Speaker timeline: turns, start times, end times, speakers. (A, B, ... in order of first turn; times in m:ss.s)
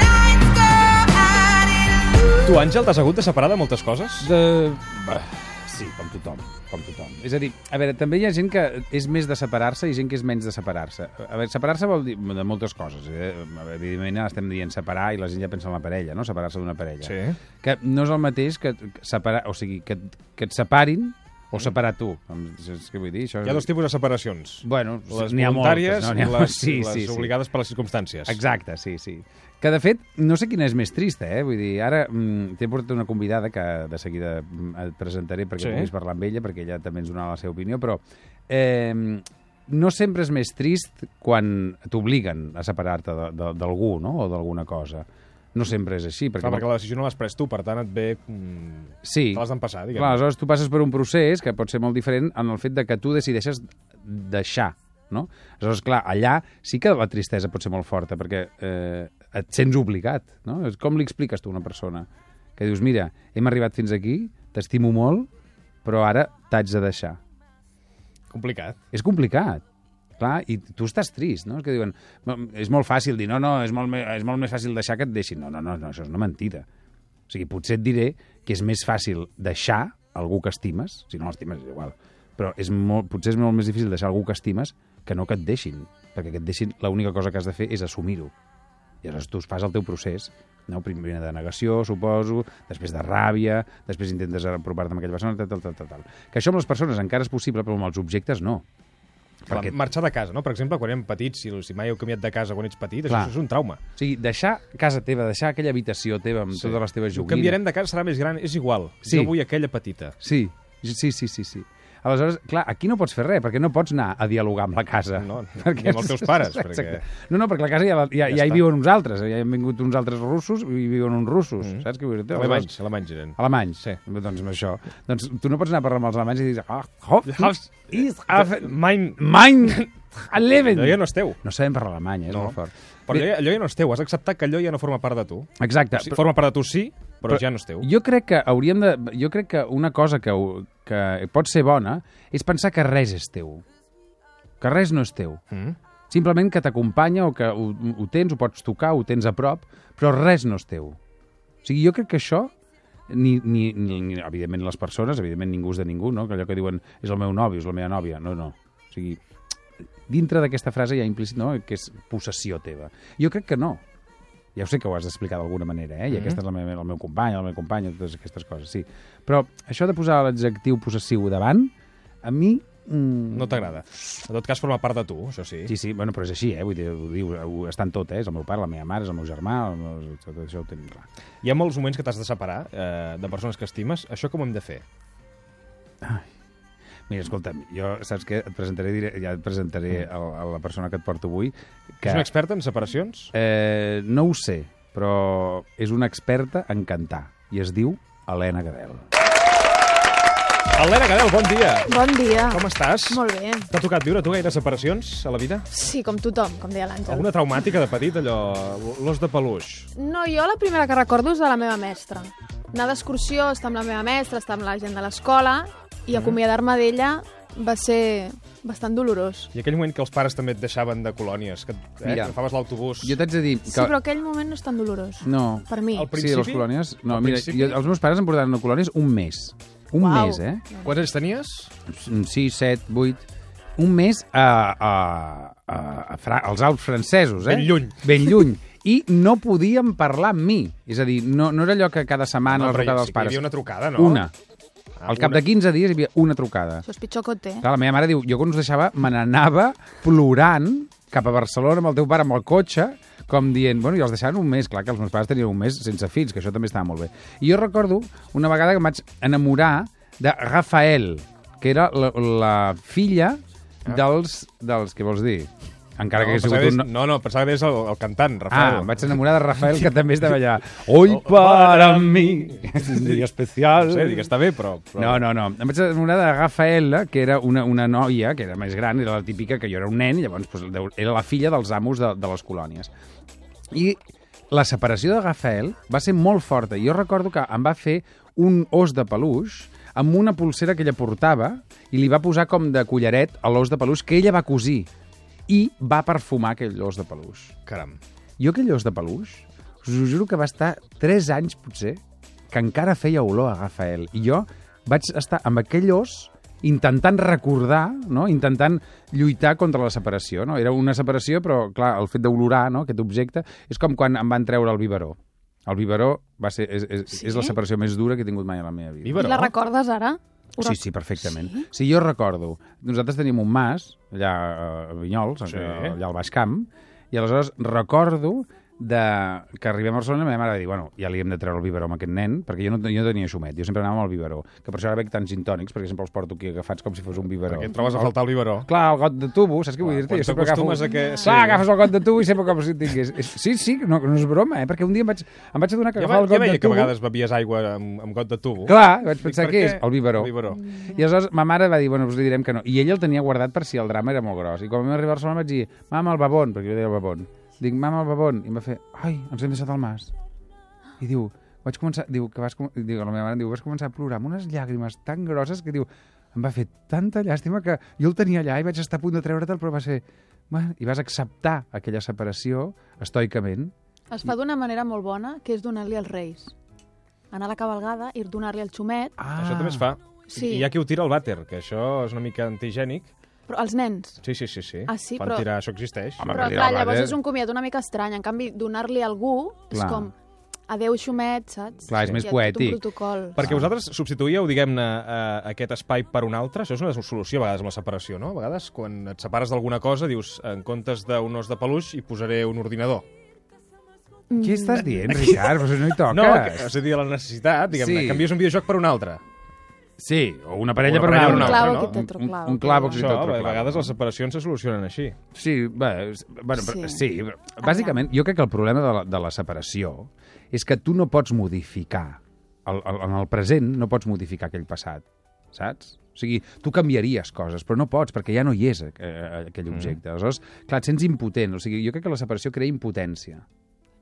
0:02.4-0:04.3 A
0:04.2-0:23.7 B
0:17.0-0:17.4 A
0:23.4-0:28.4 A
0:24.6-0:27.3 B
0:28.2-0:46.6 B
0:35.6-0:35.9 A
0:46.4-0:50.2 A
0:49.0-1:05.3 B
1:05.8-1:07.2 B
1:08.3-1:08.8 A
1:08.9-1:09.6 B
1:10.2-1:16.6 B
1:17.3-1:28.3 B
1:29.0-1:38.6 B
1:39.4-1:39.7 B
1:39.5-1:43.8 A
1:43.1-1:43.3 B
1:44.0-1:47.6 B
1:46.5-1:50.1 A
1:49.0-1:49.3 B
1:50.2-2:02.7 B
1:55.2-1:57.1 A
1:58.3-1:58.6 A
2:01.6-2:04.0 A
2:03.4-2:13.3 B
2:07.2-2:09.9 A
2:10.5-2:11.4 A
2:12.3-2:17.9 A
2:15.6-2:16.2 B
2:17.3-2:23.6 B
2:24.6-2:25.4 B
2:25.5-2:25.8 A
2:26.1-2:31.0 B
2:31.6-2:32.5 B
2:33.1-2:39.2 B
2:40.1-2:43.8 B
2:44.6-2:51.7 B
2:46.1-2:46.4 A
2:52.2-2:53.7 B
2:53.3-2:55.7 A
2:55.7-3:01.0 B
3:01.4-3:04.8 A
3:06.0-3:06.3 B
3:07.1-3:12.3 B
3:12.0-3:13.3 A
3:13.3-3:19.1 B
3:20.7-3:21.9 A
3:21.9-3:23.7 C
3:22.5-3:25.7 A
3:25.7-3:27.3 C
3:27.1-3:29.9 A
3:29.9-3:39.5 C
3:36.1-3:36.4 A
3:39.5-3:43.2 A
3:42.0-3:42.4 B
3:43.0-3:43.9 B
3:43.7-3:46.1 C
3:45.2-3:50.7 B
3:45.9-3:47.8 A
3:50.0-3:50.9 C
3:50.8-3:51.7 A
3:51.9-3:53.2 B
3:53.8-4:04.3 B
3:57.4-3:58.4 A
4:02.5-4:04.3 A
4:05.0-4:05.4 A
4:05.1-4:06.8 B
4:06.8-4:07.6 C
4:07.6-4:26.9 B
4:26.2-4:29.2 A
4:28.5-4:34.3 B
4:31.1-4:33.2 A
4:33.8-4:35.2 A
4:35.0-4:42.9 B
4:43.7-4:44.0 B
4:44.5-4:54.9 B
4:55.5-4:57.6 B
4:57.7-4:58.0 A
4:58.4-5:19.3 B
5:17.1-5:17.6 C
5:19.0-5:19.5 A
5:19.1-5:21.6 C
5:20.6-5:38.1 B
5:25.4-5:26.0 A
5:37.4-5:38.7 A
5:38.6-5:46.9 B
5:39.8-5:41.7 A
5:46.0-5:50.6 A
5:48.6-6:00.1 B
6:01.0-6:13.7 B
6:14.1-6:16.5 C
6:17.3-6:19.1 C
6:19.2-6:19.9 B
6:19.4-6:23.1 A
6:20.3-6:20.7 C
6:23.5-6:24.2 C
6:24.2-6:26.3 A
6:24.9-6:25.5 C
6:26.2-6:27.2 B
6:26.2-6:30.1 C
6:29.7-6:30.1 B
6:30.7-6:33.4 C
6:31.9-6:32.8 B
6:32.0-6:32.2 A
6:33.4-6:43.0 A
6:33.4-6:33.7 B
6:44.3-6:45.4 C
6:44.4-6:46.8 B
6:46.1-6:49.2 A
6:47.7-6:48.3 B
6:50.0-6:54.0 B
6:50.8-6:52.0 A
6:51.1-6:53.1 C
6:52.9-6:55.2 A
6:55.3-7:13.4 B
6:56.6-6:57.0 C
6:57.6-6:58.0 C
7:09.7-7:10.0 A